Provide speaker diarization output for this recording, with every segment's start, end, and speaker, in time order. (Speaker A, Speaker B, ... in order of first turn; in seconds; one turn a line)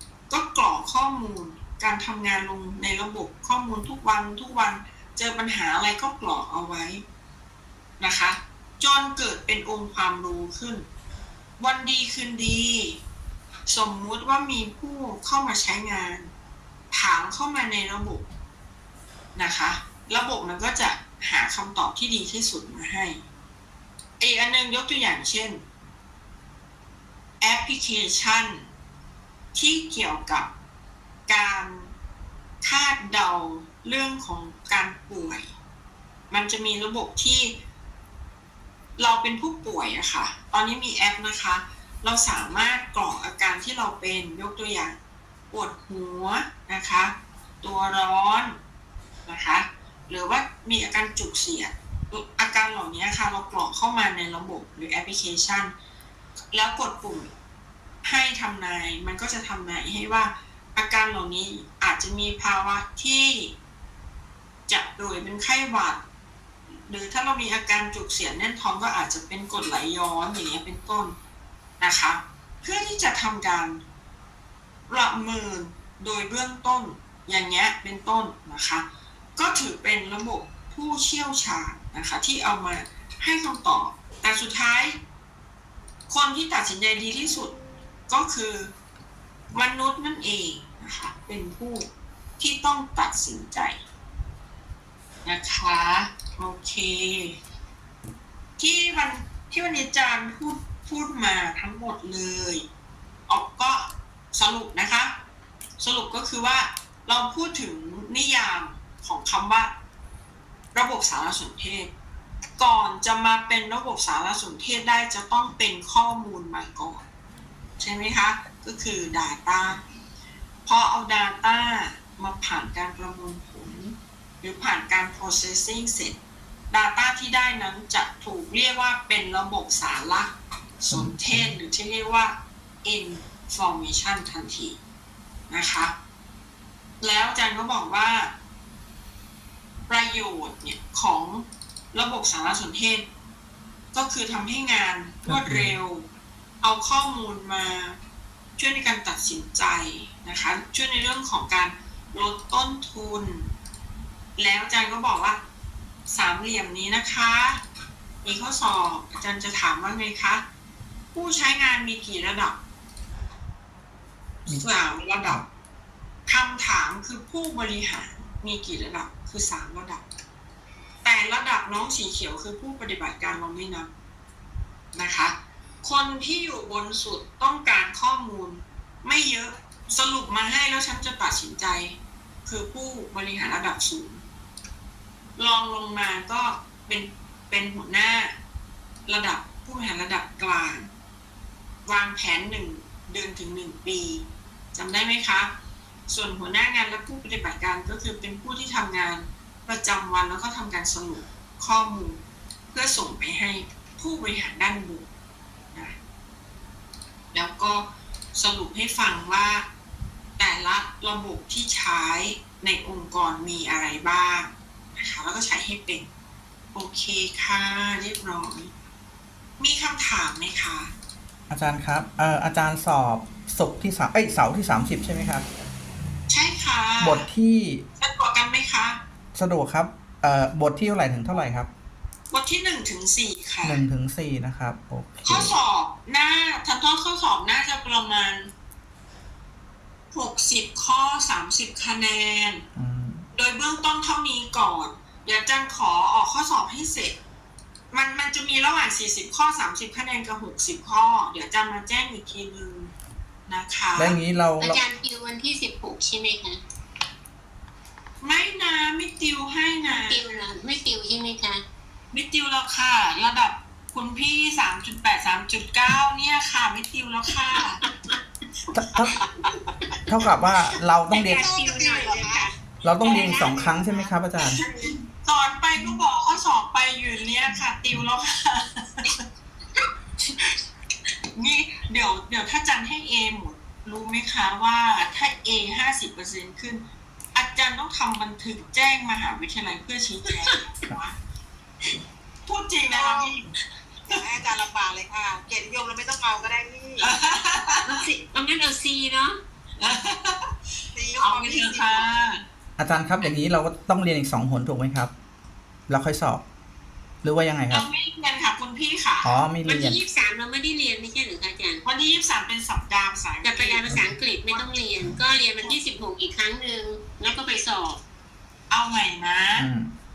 Speaker A: 0.3-7.0
Speaker A: 8.0-10.9
Speaker A: 11.6-13.0
Speaker A: 13.7-16.3
Speaker A: 16.9-18.2
Speaker A: 19.4-23.2
Speaker A: 24.2-25.6
Speaker A: 27.4-28.7
Speaker A: 29.5-30.5
Speaker A: 31.3-31.9
Speaker A: 32.6-35.5
Speaker A: 36.3-37.5
Speaker A: 39.0-45.0
Speaker A: 45.5-48.6
Speaker A: 49.2-55.7
Speaker A: 56.5-57.3
Speaker A: 58.0-63.5
Speaker A: 64.7-66.0
Speaker A: 66.9-71.2
Speaker A: 71.8-73.8
Speaker A: 74.9-78.8
Speaker A: 79.4-85.0
Speaker A: 86.1-87.5
Speaker A: 88.1-88.7
Speaker A: 89.5-91.9
Speaker A: 92.4-93.8
Speaker A: 95.2-97.3
Speaker A: 98.6-102.6
Speaker A: 103.3-105.2
Speaker A: 105.8-109.7
Speaker A: 110.7-111.9
Speaker A: 112.6-117.0
Speaker A: 117.8-119.8
Speaker A: 120.7-126.2
Speaker A: 126.7-134.8
Speaker B: 130.9-131.5
Speaker A: 135.5-135.9
Speaker A: 137.0-138.3
Speaker A: 139.9-143.1
Speaker A: 143.9-146.1
Speaker B: 145.3-145.7
Speaker A: 146.6-148.0
Speaker A: 148.6-153.5
Speaker A: 154.4-155.4
Speaker A: 156.1-157.6
Speaker A: 158.2-160.4
Speaker A: 161.1-162.6
Speaker A: 164.5-165.4
Speaker A: 166.3-170.0
Speaker A: 171.0-173.9
Speaker A: 174.9-184.2
Speaker A: 185.4-188.3
Speaker A: 189.1-190.9
Speaker A: 191.8-195.5
Speaker A: 196.1-202.2
Speaker A: 202.7-205.1
Speaker A: 207.3-209.7
Speaker A: 210.4-216.1
Speaker A: 216.7-218.7
Speaker A: 219.6-220.9
Speaker B: 221.5-225.5
Speaker A: 226.3-227.2
Speaker B: 227.0-227.8
Speaker A: 228.0-229.0
Speaker B: 229.3-231.7
Speaker A: 232.3-233.8
Speaker B: 233.6-235.5
Speaker A: 235.2-238.5
Speaker A: 240.1-242.6
Speaker B: 242.8-243.2
Speaker A: 243.3-247.2
Speaker A: 247.9-252.9
Speaker A: 253.5-254.2
Speaker B: 253.9-254.8
Speaker C: 254.6-256.6
Speaker A: 258.2-260.4
Speaker C: 259.9-261.6
Speaker A: 262.1-267.8
Speaker C: 267.9-268.2
Speaker B: 268.7-269.2
Speaker B: 270.1-271.5
Speaker C: 271.1-272.5
Speaker D: 271.1-272.5
Speaker B: 272.8-274.6
Speaker C: 273.0-273.8
Speaker D: 273.0-274.9
Speaker A: 274.6-279.2
Speaker A: 281.4-291.2
Speaker A: 292.5-293.5
Speaker D: 292.9-293.3
Speaker D: 294.1-297.1
Speaker A: 297.0-298.0
Speaker D: 297.9-298.2
Speaker C: 298.3-299.4
Speaker A: 299.8-300.5
Speaker D: 300.9-302.1
Speaker A: 301.2-302.4
Speaker B: 302.8-305.1
Speaker B: 305.9-306.4
Speaker B: 307.2-307.9
Speaker A: 307.7-309.4
Speaker B: 309.2-310.0
Speaker C: 309.6-311.8
Speaker A: 311.8-314.6
Speaker C: 313.4-318.0
Speaker A: 317.2-317.6
Speaker A: 318.7-319.7
Speaker B: 319.6-319.9